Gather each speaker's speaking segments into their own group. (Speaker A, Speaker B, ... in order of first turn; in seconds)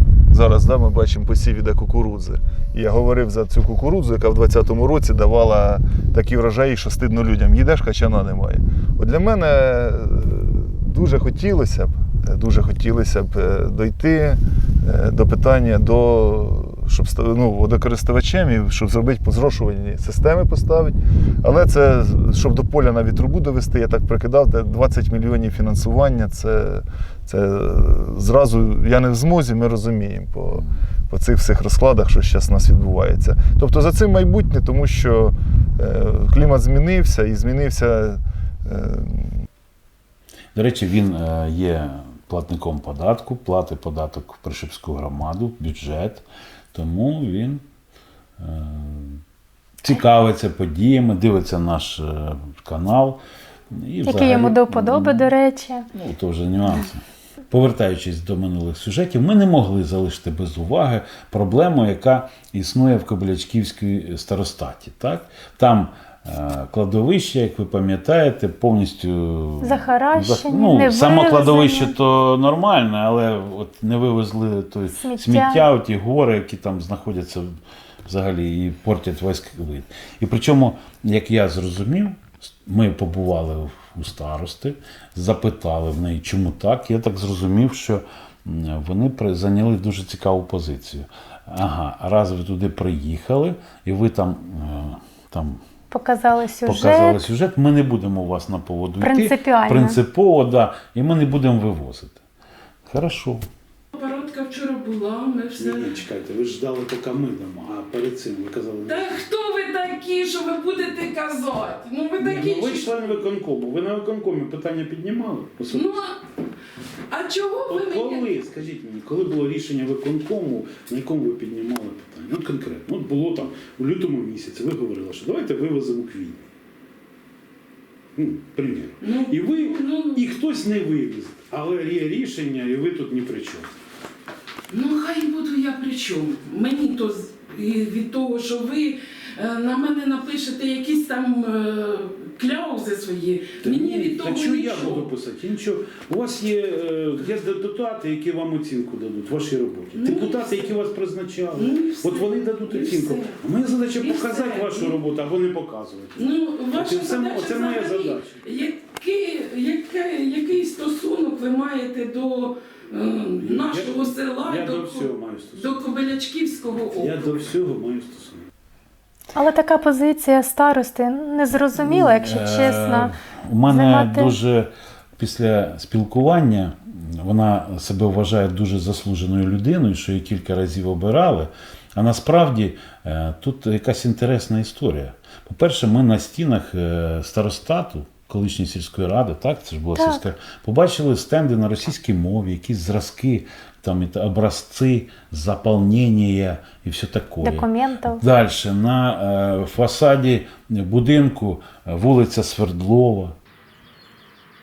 Speaker A: 0.3-39.5
Speaker B: 40.5-47.6, 48.4-49.2, 49.8-53.2, 53.7-55.3, 55.9-95.6, 96.6-102.2, 102.9-103.5, 105.6-109.0, 112.2-116.0, 117.7-126.5, 128.2-133.7, 143.6-158.4, 163.4-165.8, 167.0-168.5, 171.8-203.4
Speaker C: 54.0-55.9, 69.6-72.0, 74.9-75.7, 95.9-97.2, 99.0-100.0, 169.3-173.2, 173.7-174.4, 189.9-190.2, 197.4-198.2
Speaker D: 103.9-105.9, 108.9-113.2, 115.7-116.2, 117.1-118.3, 129.0-130.2, 134.7-145.1, 149.9-150.8, 151.6-155.0, 156.2-167.3